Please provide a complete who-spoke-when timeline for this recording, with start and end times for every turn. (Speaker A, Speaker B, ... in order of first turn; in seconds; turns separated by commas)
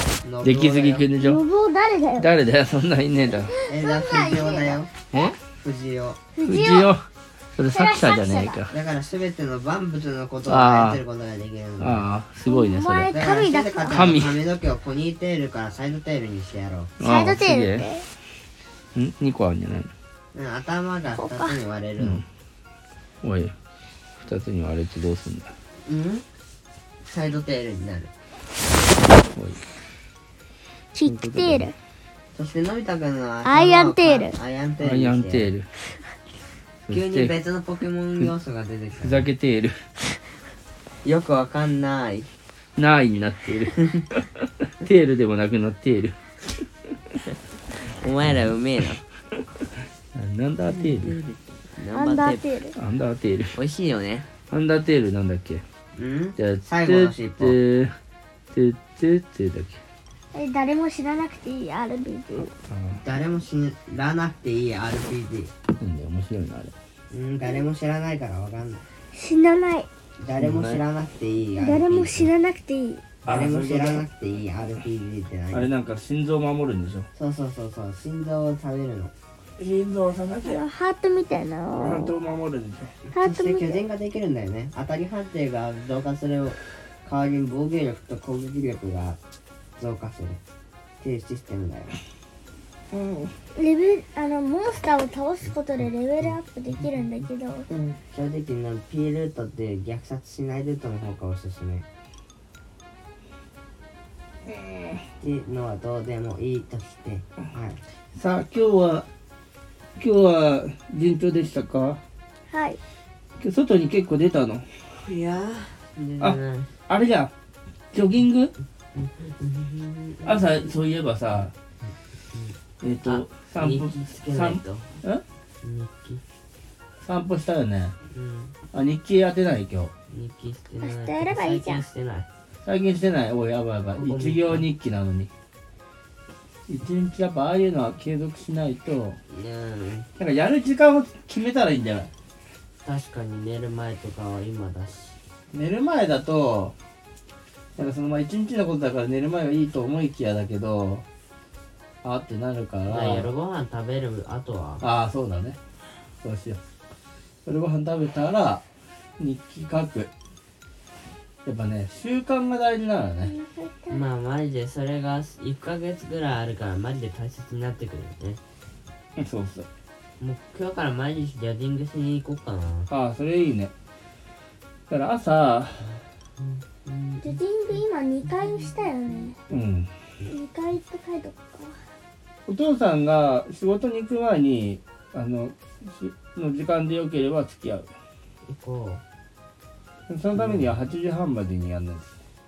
Speaker A: 0.2-1.1, Speaker B: 0.4-1.4, Speaker C: 1.2-2.3, Speaker B: 2.2-3.5, Speaker C: 3.4-4.8, Speaker A: 3.7-4.9, Speaker B: 5.1-5.4, Speaker A: 5.5-6.2, Speaker C: 6.3-6.9, Speaker B: 6.4-8.7, Speaker C: 7.6-8.6, Speaker A: 8.7-12.1, Speaker B: 10.4-11.0, Speaker B: 11.8-13.2, Speaker C: 12.4-14.2, Speaker A: 13.1-16.9, Speaker B: 13.9-14.4, Speaker B: 17.0-17.9, Speaker C: 17.0-18.0, Speaker B: 18.9-19.9, Speaker A: 20.3-22.2, Speaker C: 21.2-21.6, Speaker B: 22.0-22.2, Speaker B: 23.2-23.5, Speaker B: 24.2-25.6, Speaker A: 25.8-26.2, Speaker A: 27.1-28.1, Speaker B: 29.3-29.6, Speaker C: 30.9-31.7, Speaker B: 31.0-31.7, Speaker A: 32.3-35.5, Speaker C: 33.4-34.4, Speaker B: 34.8-35.7, Speaker B: 36.9-37.3, Speaker A: 36.9-39.3, Speaker B: 39.0-39.8, Speaker A: 41.0-42.3, Speaker B: 42.8-46.2, Speaker A: 47.8-49.0, Speaker B: 50.1-51.2, Speaker A: 50.7-52.5, Speaker C: 51.9-52.7, Speaker B: 52.7-53.6, Speaker A: 53.5-54.3, Speaker B: 54.5-55.6, Speaker A: 56.0-57.6, Speaker B: 56.4-58.0, Speaker B: 58.5-59.8, Speaker C: 60.3-62.5, Speaker B: 62.7-63.0, Speaker A: 63.0-65.5, Speaker B: 65.8-66.7, Speaker A: 67.1-68.8, Speaker C: 69.1-69.9, Speaker A: 70.2-72.3, Speaker B: 70.4-70.8, Speaker C: 71.6-73.0, Speaker B: 73.2-74.0, Speaker A: 73.3-75.7, Speaker B: 75.5-77.1, Speaker A: 77.1-79.1, Speaker B: 79.6-80.6, Speaker C: 80.4-82.2, Speaker B: 81.7-82.9, Speaker A: 83.1-89.2, Speaker C: 83.1-83.8, Speaker A: 89.8-90.4, Speaker A: 91.0-92.0, Speaker B: 92.9-93.3, Speaker C: 93.5-97.7, Speaker A: 96.2-96.8, Speaker B: 97.7-98.0, Speaker A: 98.1-101.8, Speaker A: 105.2-107.8, Speaker B: 108.1-109.1, Speaker B: 110.0-112.0, Speaker C: 112.5-112.8, Speaker B: 113.4-114.7, Speaker A: 115.0-116.7, Speaker B: 116.9-117.3, Speaker B: 117.9-118.5, Speaker A: 118.9-120.7, Speaker B: 120.2-121.5, Speaker A: 121.8-124.9, Speaker B: 122.8-125.2, Speaker A: 125.6-126.2, Speaker B: 127.0-127.9, Speaker A: 128.1-128.6, Speaker B: 128.7-129.9, Speaker A: 130.1-132.3, Speaker C: 130.8-131.8, Speaker B: 132.6-135.3, Speaker A: 133.9-134.7, Speaker B: 136.7-139.2, Speaker A: 139.3-140.1, Speaker B: 140.2-142.1, Speaker A: 142.8-145.2, Speaker B: 145.5-146.7, Speaker B: 147.8-151.0, Speaker B: 152.0-153.3, Speaker A: 152.9-154.9, Speaker B: 154.8-155.6, Speaker B: 156.2-156.6, Speaker B: 157.4-158.6, Speaker B: 159.2-160.1, Speaker B: 161.4-163.3, Speaker C: 163.2-164.0, Speaker A: 163.9-168.4, Speaker B: 169.2-169.7, Speaker A: 170.2-172.9, Speaker B: 172.9-173.7, Speaker B: 174.9-176.0, Speaker A: 176.4-179.2, Speaker C: 177.2-179.4, Speaker B: 179.5-179.9, Speaker C: 180.3-181.8, Speaker B: 182.5-187.9, Speaker A: 188.4-189.0, Speaker B: 190.1-192.1, Speaker A: 190.3-190.8